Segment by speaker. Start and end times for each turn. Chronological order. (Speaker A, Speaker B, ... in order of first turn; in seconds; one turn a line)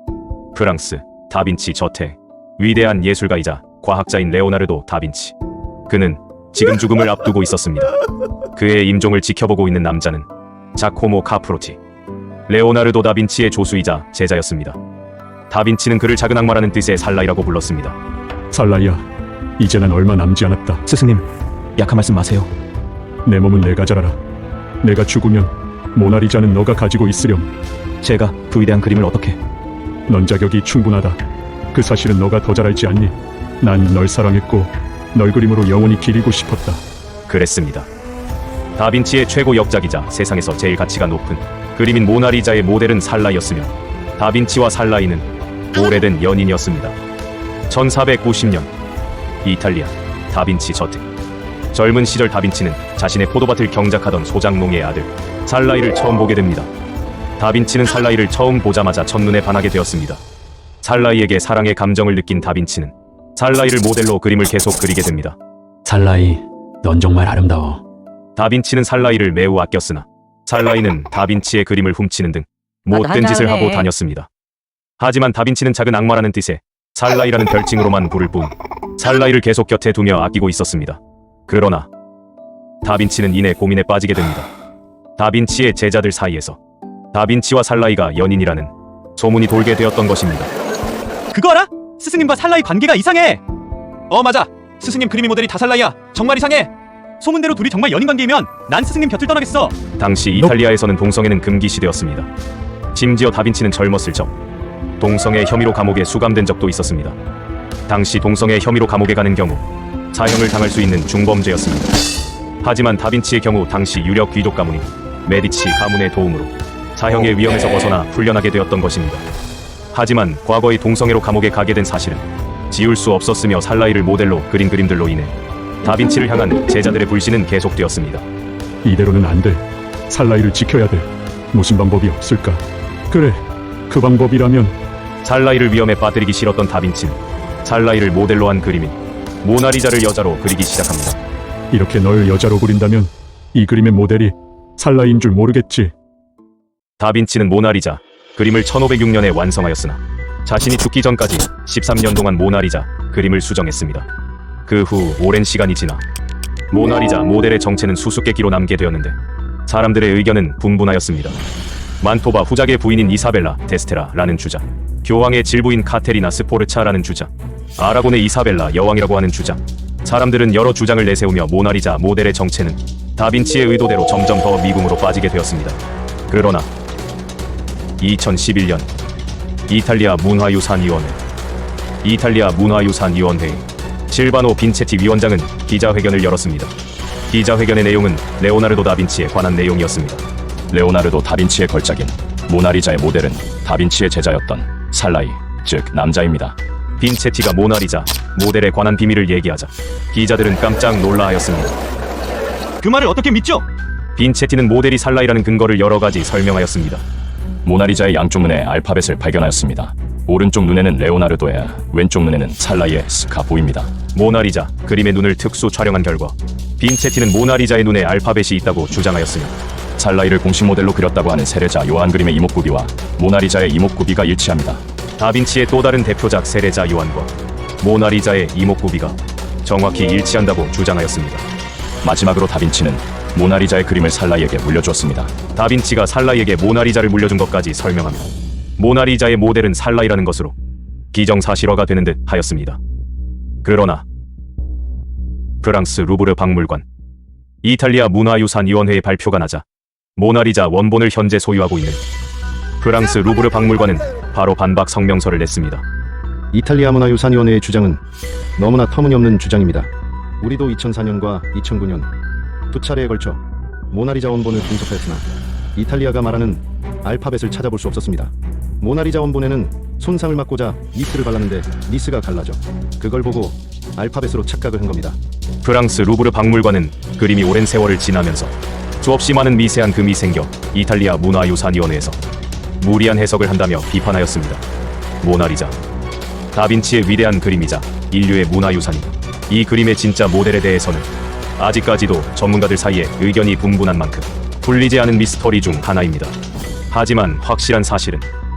Speaker A: 0.5-5.3
Speaker A: 5.9-7.9
Speaker A: 8.5-11.8
Speaker A: 12.5-14.8
Speaker A: 15.5-17.9
Speaker B: 18.5-19.0
Speaker B: 19.6-20.9
Speaker C: 20.9-21.2
Speaker C: 21.8-22.5
Speaker B: 23.2-24.2
Speaker B: 24.8-27.5
Speaker C: 28.0-29.4
Speaker B: 30.1-31.2
Speaker B: 31.7-36.8
Speaker A: 37.3-37.9
Speaker A: 38.8-47.0
Speaker A: 47.7-48.7
Speaker A: 49.4-51.0
Speaker A: 51.7-56.7
Speaker A: 57.4-60.2
Speaker A: 60.8-65.4
Speaker B: 65.8-67.8
Speaker A: 68.3-74.3
Speaker A: 75.0-81.9
Speaker A: 82.8-84.5
Speaker A: 85.2-86.6
Speaker A: 87.1-90.5
Speaker D: 91.4-93.4
Speaker D: 94.1-96.7
Speaker D: 97.2-99.7
Speaker A: 100.0-102.3
Speaker A: 102.9-104.3
Speaker A: 105.0-107.2
Speaker A: 107.9-112.0
Speaker A: 112.6-119.2
Speaker A: 119.9-128.2
Speaker B: 128.8-134.7
Speaker A: 135.2-141.2
Speaker B: 141.7-145.9
Speaker A: 147.0-154.1
Speaker A: 154.7-156.0
Speaker A: 156.7-159.2
Speaker A: 159.7-161.4
Speaker A: 162.0-176.7
Speaker A: 178.0-178.9
Speaker A: 179.7-181.2
Speaker A: 182.0-186.7
Speaker A: 187.3-190.2
Speaker E: 190.7-196.5
Speaker A: 197.0-201.8
Speaker C: 202.8-203.4
Speaker D: 203.1-203.6
Speaker A: 204.2-207.0
Speaker E: 207.7-213.9
Speaker A: 214.1-219.5
Speaker E: 220.0-224.8
Speaker A: 225.2-231.4
Speaker E: 232.0-235.3
Speaker A: 235.5-240.5
Speaker A: 241.1-242.8
Speaker A: 243.6-244.0
Speaker A: 245.6-246.8
Speaker A: 247.6-249.6
Speaker A: 250.2-252.0
Speaker A: 252.8-255.8
Speaker F: 256.5-258.0
Speaker F: 258.6-259.9
Speaker F: 260.4-262.1
Speaker F: 262.7-275.2
Speaker A: 275.6-282.2
Speaker A: 282.8-284.6
Speaker A: 285.2-285.8
Speaker A: 286.5-296.4
Speaker A: 296.9-298.3